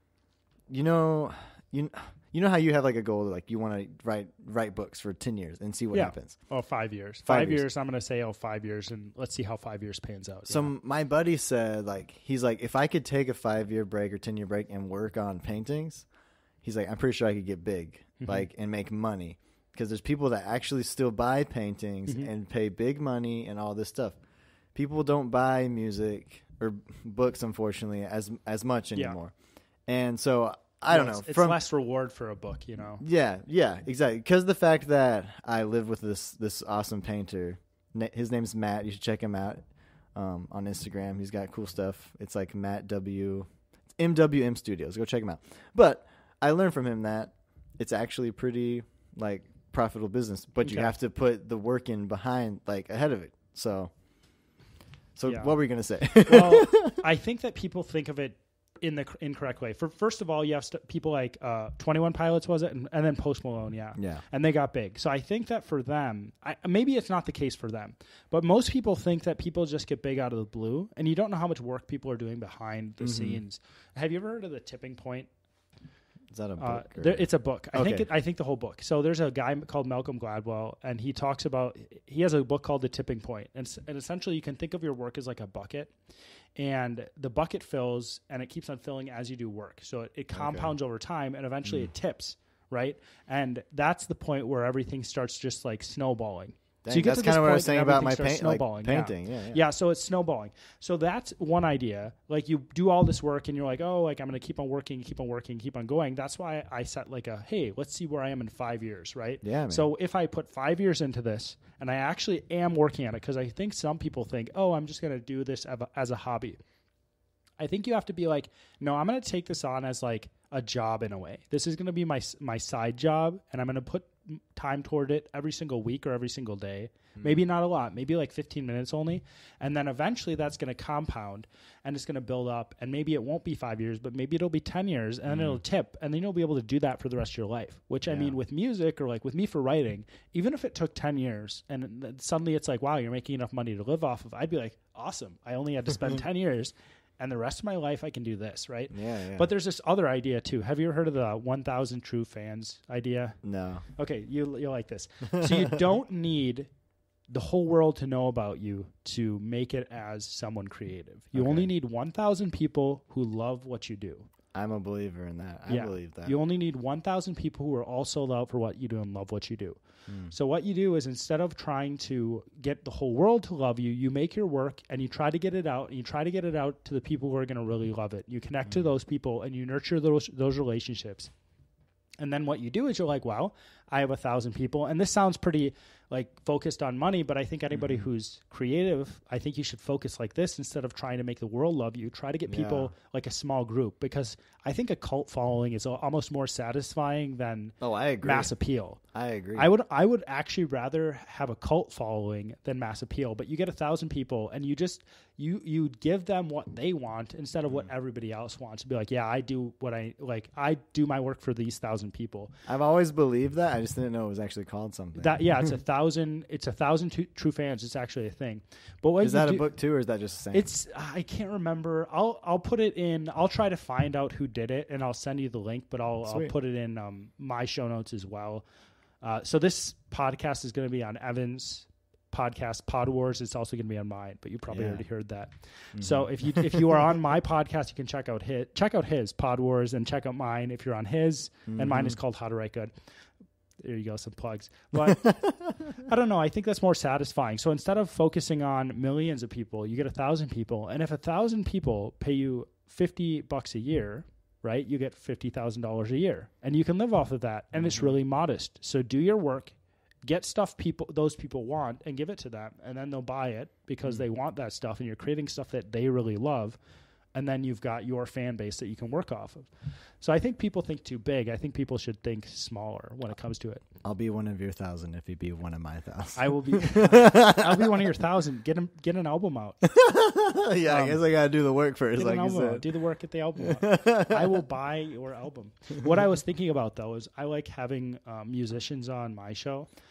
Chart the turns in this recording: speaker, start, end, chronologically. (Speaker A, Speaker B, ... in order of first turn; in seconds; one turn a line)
Speaker A: 0.7-6.4
Speaker B: 5.9-10.7
Speaker A: 7.3-7.7
Speaker A: 10.5-16.1
Speaker A: 16.6-24.2
Speaker B: 18.2-18.5
Speaker A: 24.8-29.3
Speaker A: 29.9-31.6
Speaker B: 30.9-33.0
Speaker A: 33.0-39.6
Speaker A: 40.1-43.5
Speaker A: 44.0-53.9
Speaker B: 50.6-50.9
Speaker A: 55.2-57.0
Speaker B: 55.3-55.5
Speaker B: 56.3-75.3
Speaker A: 64.0-64.2
Speaker A: 73.0-73.4
Speaker A: 76.3-78.1
Speaker B: 76.6-85.9
Speaker B: 86.6-116.6
Speaker A: 90.3-90.7
Speaker A: 91.6-91.9
Speaker A: 96.8-99.6
Speaker A: 109.4-109.9
Speaker B: 117.6-153.4
Speaker A: 127.2-127.4
Speaker A: 135.3-135.6
Speaker A: 138.1-138.4
Speaker A: 148.9-149.5
Speaker A: 153.4-153.8
Speaker B: 154.0-156.7
Speaker A: 155.3-155.7
Speaker B: 157.3-164.3
Speaker A: 161.3-161.7
Speaker A: 164.5-166.4
Speaker B: 165.7-181.3
Speaker A: 170.1-170.3
Speaker B: 182.2-199.0
Speaker A: 187.7-188.1
Speaker A: 192.5-192.9
Speaker A: 197.8-198.5
Speaker A: 199.1-199.7
Speaker B: 199.6-212.6
Speaker A: 212.7-215.7
Speaker B: 215.2-219.7
Speaker A: 219.2-220.7
Speaker B: 220.5-228.7
Speaker A: 226.3-226.5
Speaker B: 229.2-242.9
Speaker A: 234.7-235.0
Speaker A: 236.0-237.1
Speaker A: 241.7-242.2
Speaker B: 243.8-245.4
Speaker A: 245.1-245.8
Speaker B: 245.9-259.7
Speaker A: 257.8-258.2
Speaker B: 260.2-266.8
Speaker B: 267.4-269.7
Speaker B: 270.2-273.8
Speaker A: 274.0-278.0
Speaker B: 276.4-279.9
Speaker A: 279.8-282.9
Speaker B: 280.9-281.2
Speaker B: 282.2-289.9
Speaker A: 283.6-284.6